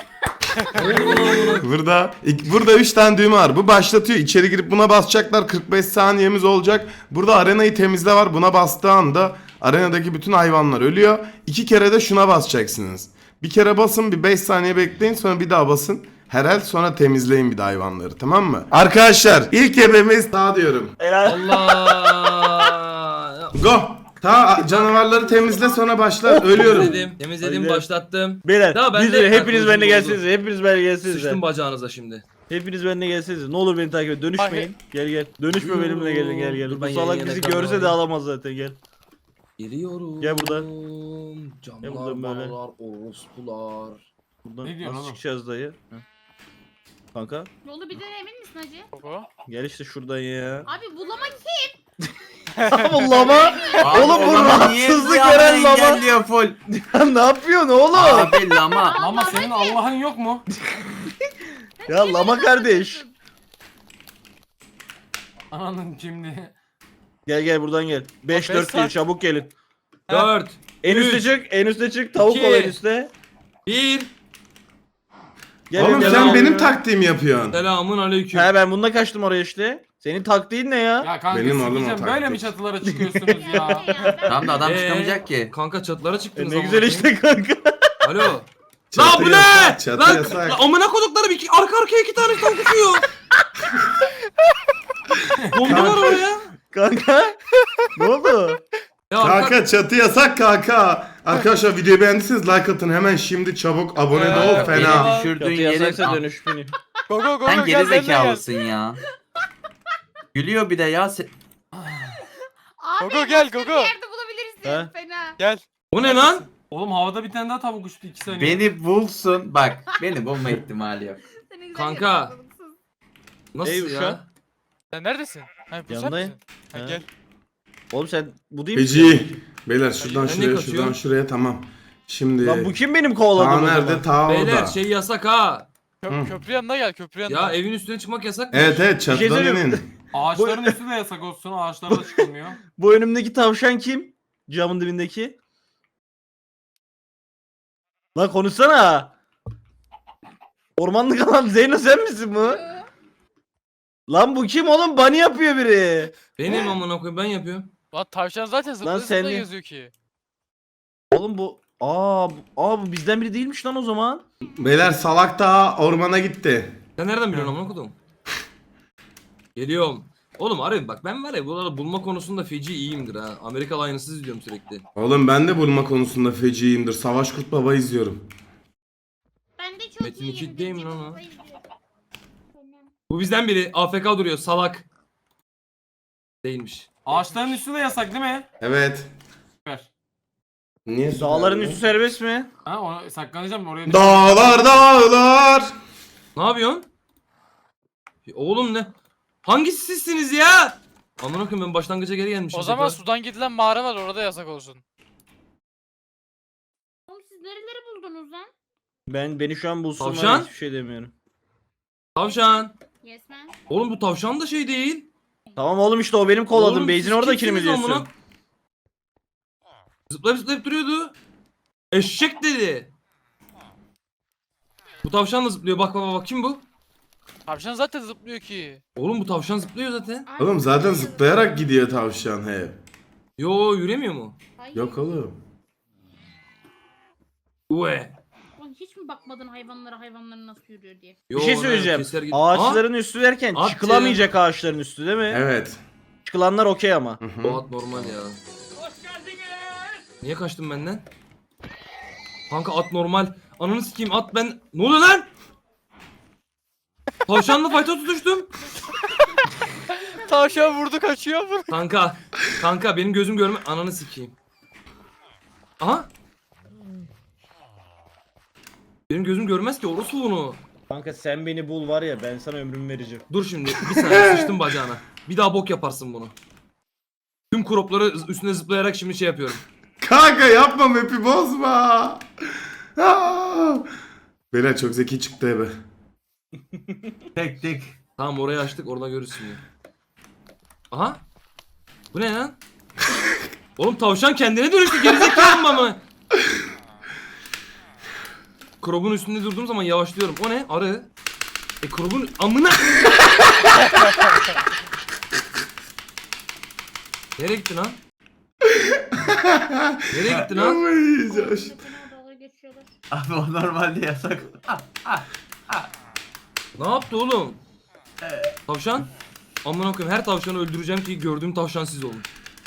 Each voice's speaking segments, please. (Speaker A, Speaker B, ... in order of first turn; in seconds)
Speaker A: 0.7-1.7, 21.2-23.6, 26.5-30.2, 31.1-32.3, 35.6-38.0, 39.6-44.0, 70.1-71.3, 72.2-72.8, 73.7-74.1, 76.0-76.5, 77.5-78.5, 84.6-87.1, 88.0-93.1, 95.5-96.5, 99.1-99.6, 115.9-116.5, 121.7-122.3, 123.5-124.3, 130.2-131.0, 134.3-135.7, 137.3-138.8, 156.4-157.7, 167.0-168.0, 169.6-174.9, 180.0-181.2, 183.1-184.9, 186.4-186.9, 196.4-196.9, 198.2-198.9, 199.4-203.0, 210.0-210.5, 212.2-212.7, 213.7-215.1, 216.5-218.1, 220.1-221.2, 221.9-222.9, 225.0-226.7, 229.0-230.3, 233.4-234.4, 237.7-238.2, 241.3-242.8, 243.5-244.2, 247.4-248.4, 250.2-251.1, 252.5-255.3, 257.3-258.5, 261.7-264.4, 265.8-266.1, 269.1-270.6, 273.3-276.3, 277.5-279.6, 288.2-289.6, 290.9-291.2, 292.1-292.6, 293.8-296.0, 298.8-301.1, 301.8-303.0, 307.4-308.0, 310.1-310.8, 316.8-317.6, 318.7-319.1, 319.6-322.3
Speaker B: 0.8-20.9, 23.6-27.0, 75.8-77.6, 81.3-82.5, 88.9-90.6, 95.6-96.1, 99.2-105.2, 128.8-132.7, 133.3-134.8, 136.1-136.3, 138.5-139.8, 164.6-166.8, 175.0-178.2, 188.6-189.1, 190.9-191.8, 193.9-195.7, 230.4-232.8, 234.7-235.4, 245.3-245.8, 247.2-247.6, 273.9-274.5, 280.0-282.2, 283.0-283.9, 284.5-285.7, 308.9-311.8
Speaker C: 21.0-22.5, 26.2-27.9, 28.4-31.4, 32.5-38.8, 40.2-40.7, 41.8-42.6, 44.4-45.8, 47.1-47.5, 49.5-50.7, 52.7-56.0, 56.8-58.4, 61.9-63.0, 67.3-69.5, 70.8-73.1, 75.7-76.8, 78.3-81.1, 82.8-84.5, 86.4-87.9, 96.7-97.4, 97.9-98.6, 105.4-106.7, 114.7-114.9, 123.6-124.2, 125.9-127.0, 127.9-129.3, 132.4-134.1, 139.1-139.8, 140.3-140.8, 141.9-142.2, 142.8-145.3, 148.2-149.1, 150.8-152.6, 154.1-156.6, 158.8-159.5, 161.1-164.2, 191.2-192.5, 209.1-211.1, 215.6-218.1, 241.3-245.4, 246.2-247.2, 270.9-273.2
Speaker D: 34.4-34.7, 49.0-49.3, 52.6-53.4, 68.3-69.0, 104.1-105.4, 107.1-108.5, 113.0-113.9, 115.4-115.6, 124.9-127.0, 130.0-130.3, 136.0-137.6, 157.9-159.9, 202.5-204.8, 227.5-228.8, 260.1-261.8
Speaker E: 44.6-45.2, 58.9-60.5, 65.5-66.5, 81.0-84.0, 95.4-95.8, 104.3-104.9, 116.0-118.7, 140.1-142.6, 187.1-188.5, 192.7-194.8
Speaker F: 47.6-48.9, 50.7-51.8, 53.2-54.0, 58.4-59.9, 61.8-63.1, 83.3-84.8, 112.8-115.4, 119.8-120.3, 121.3-122.8, 179.6-181.7, 182.5-182.9, 207.1-208.5, 212.2-213.6, 230.3-231.4, 234.6-235.1, 238.6-241.2, 260.2-260.8, 311.1-312.9
Speaker G: 53.8-56.6, 57.9-59.0, 84.3-85.5, 104.4-106.2, 107.5-109.0, 110.3-111.3, 118.3-121.2, 287.4-287.9, 313.1-315.9, 318.2-318.5